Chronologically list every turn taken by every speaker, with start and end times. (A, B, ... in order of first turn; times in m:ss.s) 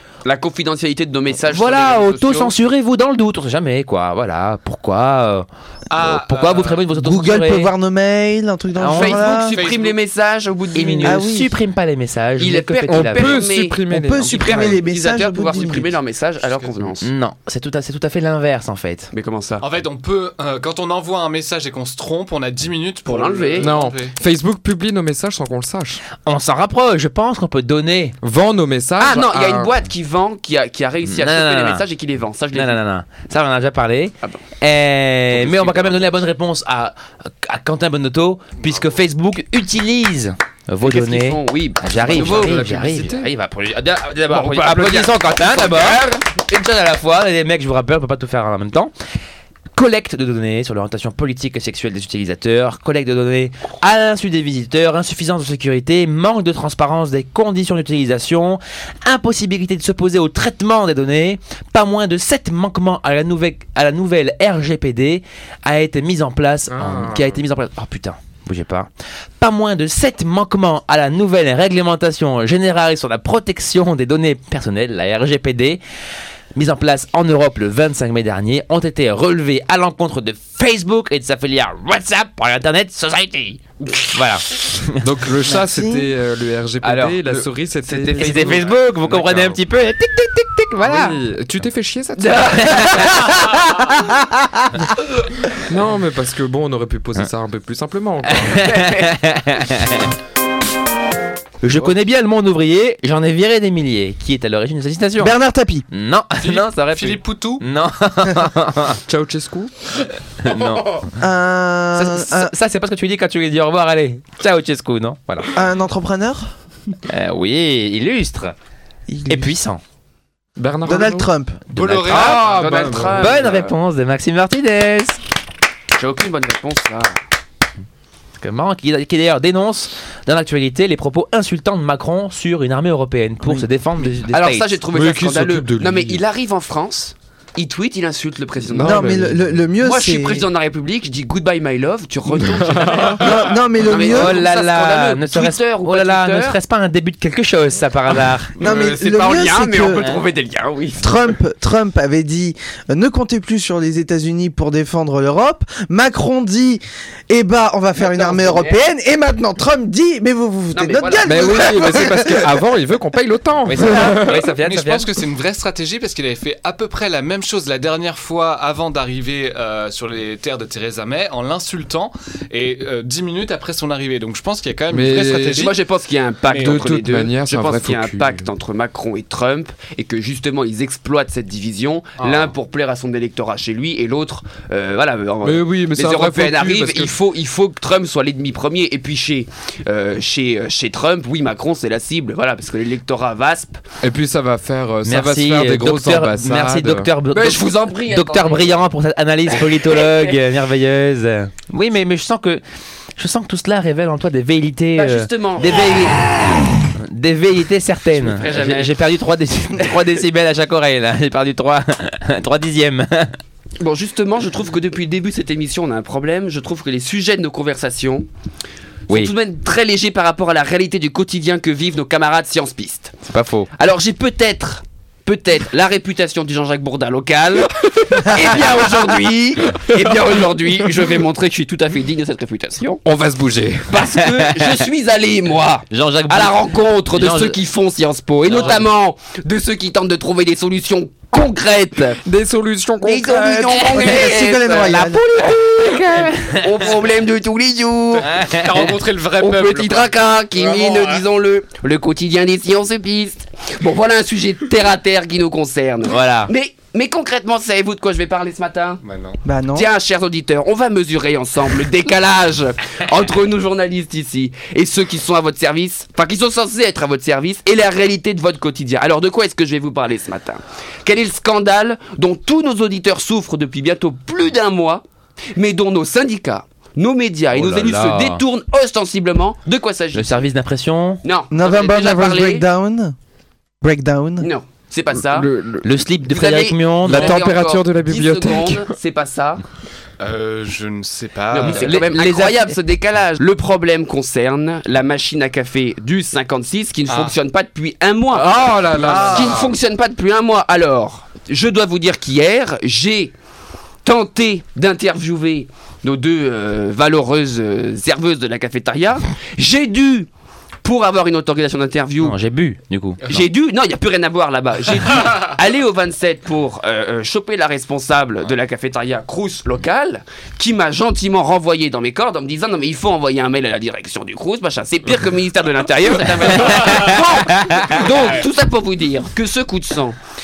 0:00.2-0:02.5 A
0:01.4-0:07.7 B
0:05.9-0:06.9 C
0:06.9-0:09.6 D
0:08.8-0:09.4 B
0:08.9-0:11.2 A
0:09.5-0:10.0 C
0:10.7-0:13.4 B
0:11.0-0:11.5 D
0:12.4-0:17.1 A
0:12.9-0:14.8 E
0:13.9-0:15.9 D
0:16.4-0:16.8 C
0:17.0-0:19.1 B
0:19.1-0:19.6 A
0:19.6-0:24.2 C
0:23.0-0:23.7 A
0:23.6-0:26.0 E
0:26.2-0:28.2 B
0:28.2-0:29.7 E
0:29.0-0:32.8 A
0:31.0-0:31.8 B
0:32.5-0:48.9 B
0:35.4-0:36.0 C
0:40.8-0:42.6 A
0:42.1-0:43.3 E
0:44.3-0:46.2 A
0:49.8-1:15.8 B
1:06.7-1:07.4 E
1:16.5-1:25.0 B
1:25.0-1:29.5 E
1:25.6-1:26.1 D
1:26.8-1:28.8 A
1:28.1-1:31.2 B
1:30.8-1:33.1 E
1:32.2-1:33.7 A
1:32.4-1:34.8 B
1:35.5-1:38.6 E
1:38.2-1:40.1 B
1:38.5-1:39.2 A
1:41.6-1:45.3 B
1:45.2-1:45.8 D
1:45.9-1:49.0 B
1:46.4-1:47.6 C
1:49.1-1:49.7 E
1:50.4-1:51.1 B
1:51.1-1:52.5 D
1:51.9-1:55.5 B
1:55.5-1:56.5 D
1:57.1-1:58.5 B
1:59.1-1:59.6 D
1:59.3-1:59.8 B
2:00.6-2:01.3 E
2:00.8-2:01.6 D
2:01.7-2:03.1 C
2:01.7-2:02.4 B
2:02.1-2:03.3 E
2:02.1-2:03.7 A
2:03.2-2:05.2 B
2:06.0-2:07.2 A
2:08.4-2:14.7 B
2:14.2-2:19.3 A
2:14.9-2:16.2 E
2:18.6-2:19.6 E
2:18.8-2:20.5 D
2:19.8-2:26.6 A
2:22.3-2:23.4 E
2:23.2-2:24.4 D
2:24.0-2:28.5 B
2:28.6-2:31.2 A
2:28.6-2:30.0 D
2:31.0-2:42.6 D
2:38.0-2:38.8 A
2:40.7-2:41.8 A
2:41.2-2:44.5 E
2:43.6-2:45.1 B
2:44.3-2:55.8 C
2:54.9-2:55.7 E
2:55.5-3:13.8 A
2:56.5-2:57.0 C
2:56.6-2:58.5 E
3:02.2-3:02.5 B
3:05.4-3:07.1 E
3:14.0-3:17.1 E
3:15.0-3:22.6 B
3:17.3-3:18.8 A
3:19.5-3:20.3 A
3:23.2-3:33.4 B
3:25.0-3:26.3 A
3:28.2-3:28.9 A
3:33.8-3:38.3 A
3:39.1-3:43.1 A
3:43.3-3:43.7 B
3:43.8-3:53.0 A
3:49.9-3:50.4 E
3:53.0-3:54.1 E
3:53.9-4:02.2 A
3:54.2-3:54.7 B
3:55.9-3:56.6 B
3:57.1-3:57.6 B
4:02.2-4:04.1 E
4:03.0-4:08.4 A
4:03.8-4:05.5 D
4:05.4-4:06.9 B
4:08.2-4:08.9 B
4:08.2-4:11.2 C
4:09.4-4:19.0 A
4:16.1-4:16.5 B
4:19.0-4:19.4 C
4:19.4-4:19.9 D
4:19.7-4:35.0 A
4:35.5-4:40.4 A
4:37.5-4:38.4 B
4:40.1-4:41.2 B
4:41.2-4:42.6 A
4:41.5-4:43.1 D
4:43.8-4:44.5 D
4:44.4-4:45.5 A
4:45.3-4:45.8 E
4:45.8-4:47.4 B
4:46.2-4:49.6 A
4:47.0-4:48.9 E
4:50.2-4:52.0 C
4:51.5-5:03.3 A
4:51.6-4:52.7 B
4:57.1-4:57.3 C
4:58.3-4:59.7 E
4:58.9-4:59.5 C
5:04.0-5:10.3 A
5:10.8-5:12.4 A
5:12.2-5:13.4 B
5:13.3-5:30.2 A
5:26.5-5:28.1 B
5:26.8-5:27.2 C